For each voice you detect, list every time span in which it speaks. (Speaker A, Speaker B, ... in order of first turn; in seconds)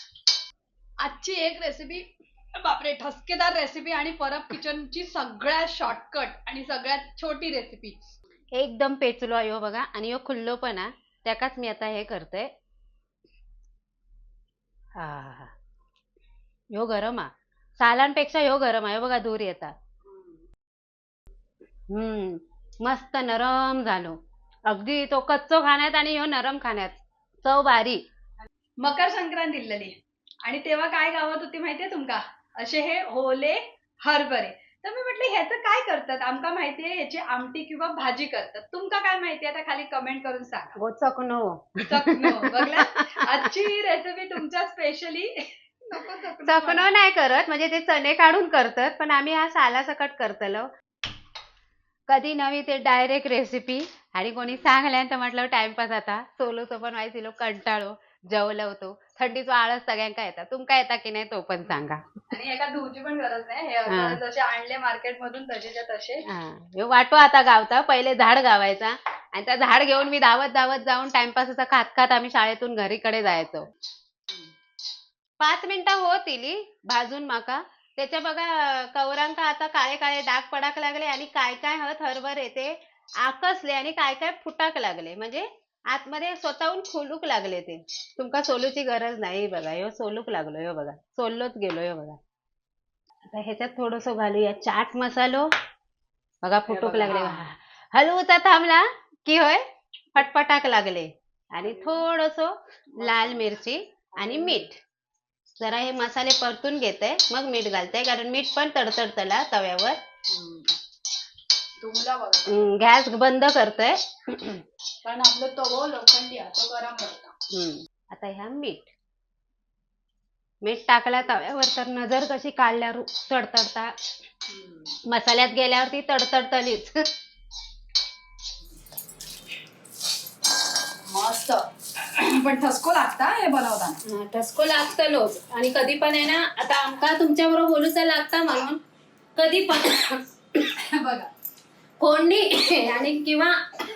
Speaker A: 1.0-2.0, 2.6-8.0, 20.1-20.3, 28.8-40.8, 41.9-46.9, 54.4-54.7, 62.3-66.2, 96.7-97.5, 101.6-102.1, 103.0-103.5, 104.2-104.7, 110.3-110.7, 111.8-112.6, 115.0-117.3, 124.5-124.9, 131.0-134.0, 140.7-141.3
Speaker B: 8.5-12.5, 15.0-15.5, 16.7-17.3, 17.8-19.7, 21.9-24.1, 24.7-28.0, 40.8-43.5, 46.5-50.7, 52.1-62.0, 63.9-64.2, 66.3-73.7, 75.4-92.2, 93.3-95.5, 96.4-99.6, 100.1-104.8, 105.6-110.0, 112.5-114.6, 117.5-118.9, 120.6-123.9, 125.1-127.0, 134.0-138.8, 139.3-140.2, 142.0-143.6